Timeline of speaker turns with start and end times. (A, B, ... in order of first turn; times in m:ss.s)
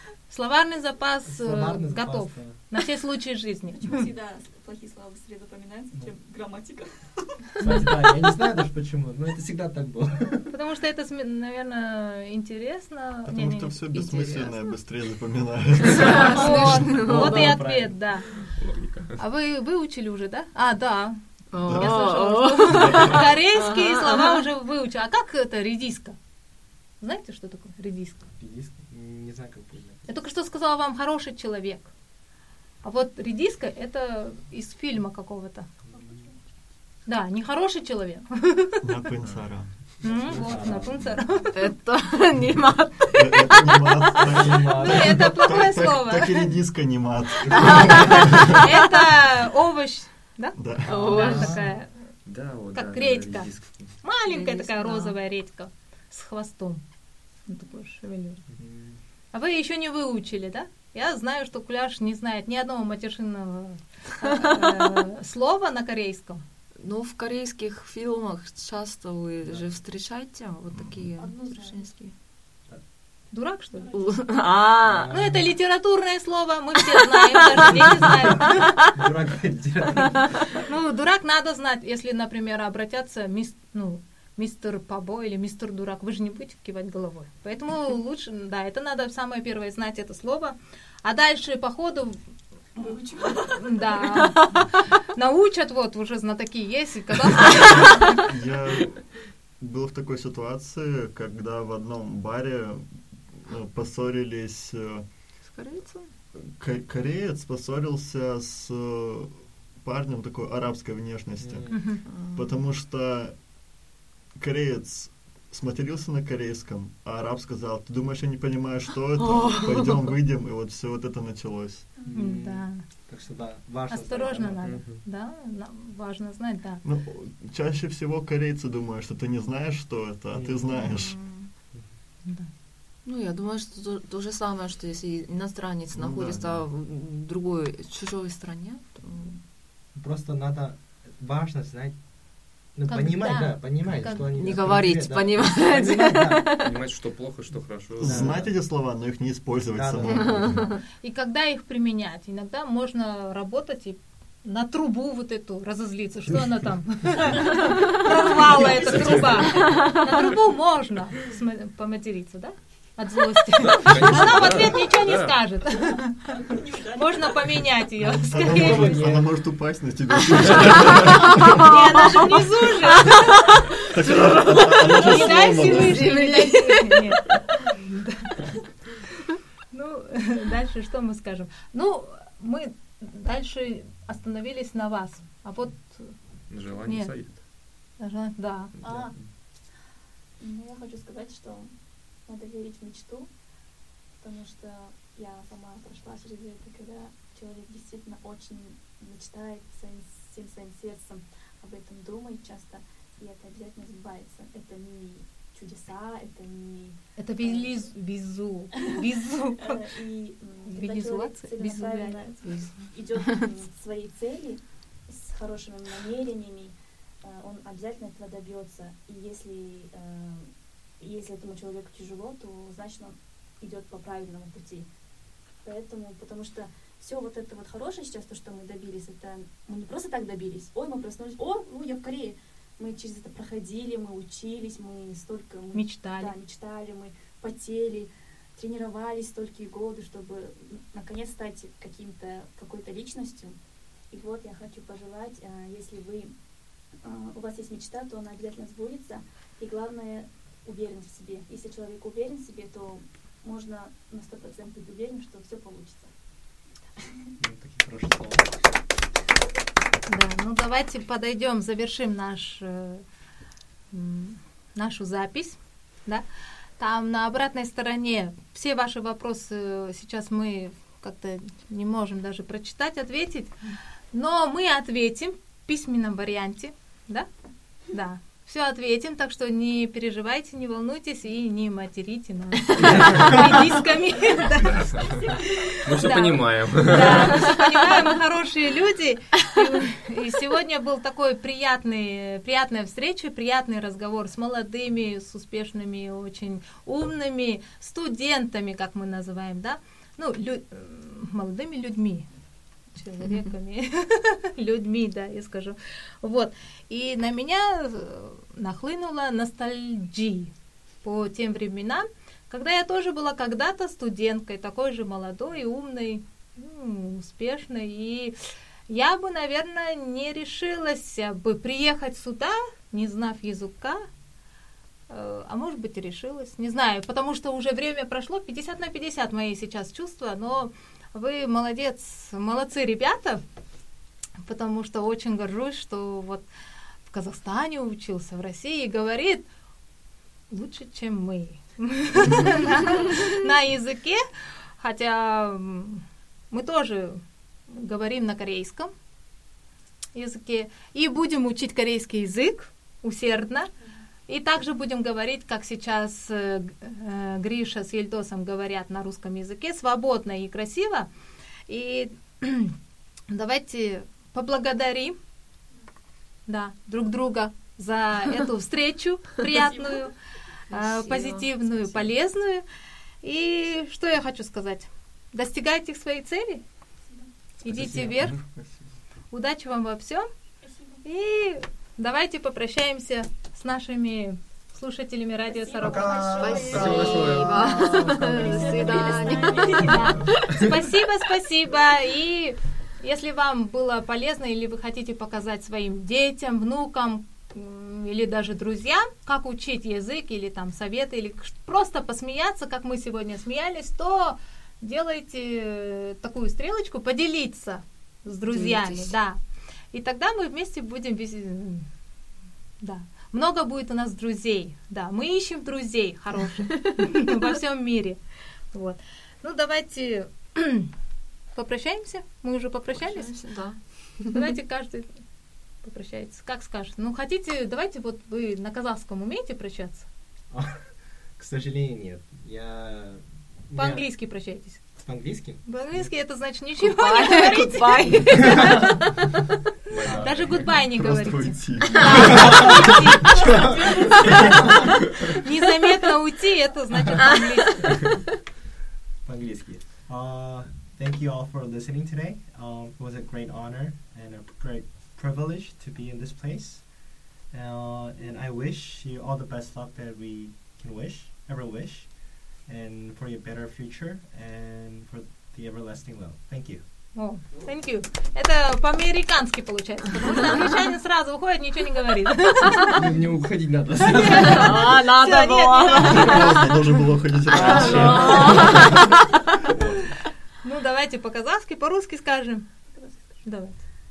0:00.3-0:04.1 A
0:01.2-0:02.6 B
0:03.7-0:08.4 C
0:07.6-0:10.5 B
0:10.5-0:13.8 A
0:13.2-0:16.7 D
0:13.9-0:14.8 E
0:16.0-0:17.6 E
0:16.1-0:18.0 B
0:16.3-0:18.4 A
0:18.3-0:19.2 F
0:19.2-0:26.2 A
0:21.5-0:24.4 E
0:21.6-0:21.9 D
0:22.7-0:23.2 F
0:27.0-0:28.2 A
0:28.4-0:30.2 B
0:30.1-0:31.9 A
0:32.8-0:35.7 A
0:35.9-0:36.3 C
0:37.0-0:38.8 A
0:38.8-0:39.7 D
0:40.0-0:41.2 B
0:40.0-0:41.7 A
0:41.5-0:44.4 E
0:43.1-0:48.4 D
0:44.2-0:45.6 B
0:44.8-0:46.5 A
0:47.4-0:48.4 B
0:47.6-0:48.6 E
0:48.1-0:52.0 A
0:50.5-0:51.0 D
0:50.8-0:51.6 E
0:50.9-0:51.6 B
0:52.2-0:54.0 F
0:52.7-0:56.8 A
0:54.2-0:55.2 E
0:57.5-0:58.4 A
0:58.6-0:59.0 B
0:59.3-1:06.4 A
1:04.2-1:05.0 E
1:06.8-1:12.1 E
1:09.4-1:09.7 B
1:11.2-1:11.9 C
1:13.3-1:14.0 A
1:13.8-1:14.2 C
1:13.9-1:15.1 E
1:14.8-1:15.5 B
1:15.1-1:18.8 A
1:16.8-1:18.9 E
1:17.8-1:20.4 B
1:20.1-1:20.5 E
1:20.6-1:32.2 A
1:32.8-1:34.2 C
1:32.8-1:38.2 A
1:38.2-1:39.0 D
1:39.6-1:45.0 D
1:45.5-1:46.1 E
1:46.4-1:53.4 D
1:51.4-1:51.9 B
1:51.7-1:52.0 A
1:52.0-1:52.6 E
1:54.4-2:01.9 D
1:59.2-2:00.1 E
2:02.0-2:02.2 C
2:02.0-2:04.8 B
2:02.1-2:02.8 A
2:03.9-2:06.8 A
2:04.6-2:05.0 F
2:06.8-2:11.2 D
2:10.3-2:10.9 B
2:10.7-2:11.5 E
2:12.2-2:12.5 A
2:13.0-2:19.4 E
2:15.9-2:16.6 D
2:19.9-2:22.0 B
2:22.7-2:26.5 B
2:22.9-2:24.3 A
2:24.3-2:26.8 E
2:26.6-2:28.4 F
2:28.0-2:30.7 D
2:28.0-2:28.5 B
2:29.7-2:30.8 B
2:30.2-2:30.6 E
2:31.0-2:46.3 A
2:37.7-2:38.0 E
2:38.0-2:39.9 C
2:38.7-2:39.7 F
2:39.5-2:40.3 E
2:43.6-2:45.4 F
2:45.9-2:47.7 C
2:46.9-2:49.1 A
2:48.2-2:51.6 D
2:48.2-2:49.4 B
2:50.3-2:52.3 E
2:51.4-2:53.3 A
2:53.0-2:57.1 E
2:53.8-2:56.0 D
2:54.9-2:58.4 A
2:59.7-3:06.1 A
3:06.5-3:07.4 F
3:06.8-3:07.1 A
3:08.0-3:08.7 A
3:08.8-3:09.3 F
3:08.8-3:09.2 C
3:10.4-3:13.3 C
3:14.2-3:27.9 C
3:27.2-3:29.8 A
3:28.7-3:29.1 C
3:29.6-3:44.9 C
3:30.7-3:32.3 A
3:32.4-3:33.5 E
3:45.6-4:03.6 C
3:55.7-3:56.3 A
4:04.1-4:06.3 C
4:07.0-4:16.1 C
4:17.0-4:17.3 C
4:17.4-4:18.5 B
4:20.1-4:23.0 A
4:23.9-4:26.2 A
4:26.8-4:33.5 A
4:34.1-4:37.3 A
4:37.9-5:02.3 A
4:44.6-4:47.6 F
4:47.4-4:47.7 E
5:02.9-5:10.5 A
5:11.0-5:18.4 A
5:18.9-5:24.0 A
5:25.1-5:33.4 A
5:34.4-5:36.4 A
5:37.1-5:39.5 A
5:40.5-5:44.2 A
5:44.8-5:48.9 A
5:50.1-5:53.7 A
5:54.3-6:01.1 A
6:01.7-6:02.8 A
6:03.3-6:05.2 A
6:06.5-6:10.1 A
6:09.5-6:10.1 C
6:10.7-6:12.6 A
6:10.7-6:11.8 E
6:13.2-6:16.6 A
6:17.6-6:18.4 A
6:17.7-6:18.1 B
6:18.2-6:18.8 D
6:19.3-6:20.3 A
6:20.6-6:21.0 C
6:21.0-6:26.6 A
6:25.4-6:30.4 C
6:25.8-6:28.3 B
6:26.4-6:30.7 E
6:26.6-6:28.2 F
6:29.5-6:49.4 A
6:48.5-6:49.1 E
6:49.9-6:51.9 A
6:52.8-6:58.2 A
6:58.7-7:00.9 A
7:01.5-7:03.4 A
7:03.0-7:04.4 E
7:04.3-7:05.1 A
7:05.8-7:10.0 A
7:10.5-7:14.1 B
7:13.8-7:14.8 A
7:14.9-7:15.6 B
7:15.6-7:19.0 A
7:16.8-7:19.1 E
7:19.9-7:20.6 F
7:20.0-7:20.5 B
7:20.2-7:23.5 A
7:20.8-7:22.7 D
7:22.0-7:22.4 E
7:22.3-7:22.6 B
7:23.2-7:24.8 C
7:24.2-7:24.5 A
7:25.3-7:28.0 A
7:29.2-7:36.9 B
7:37.5-7:46.8 B
7:47.1-7:53.0 A
7:52.8-7:54.9 F
7:54.2-7:56.8 E
7:54.2-7:56.4 A
7:56.0-7:58.4 D
7:57.5-7:59.7 E
7:57.6-7:58.9 F
8:00.6-8:02.7 A
8:02.9-8:03.5 C
8:03.4-8:03.8 A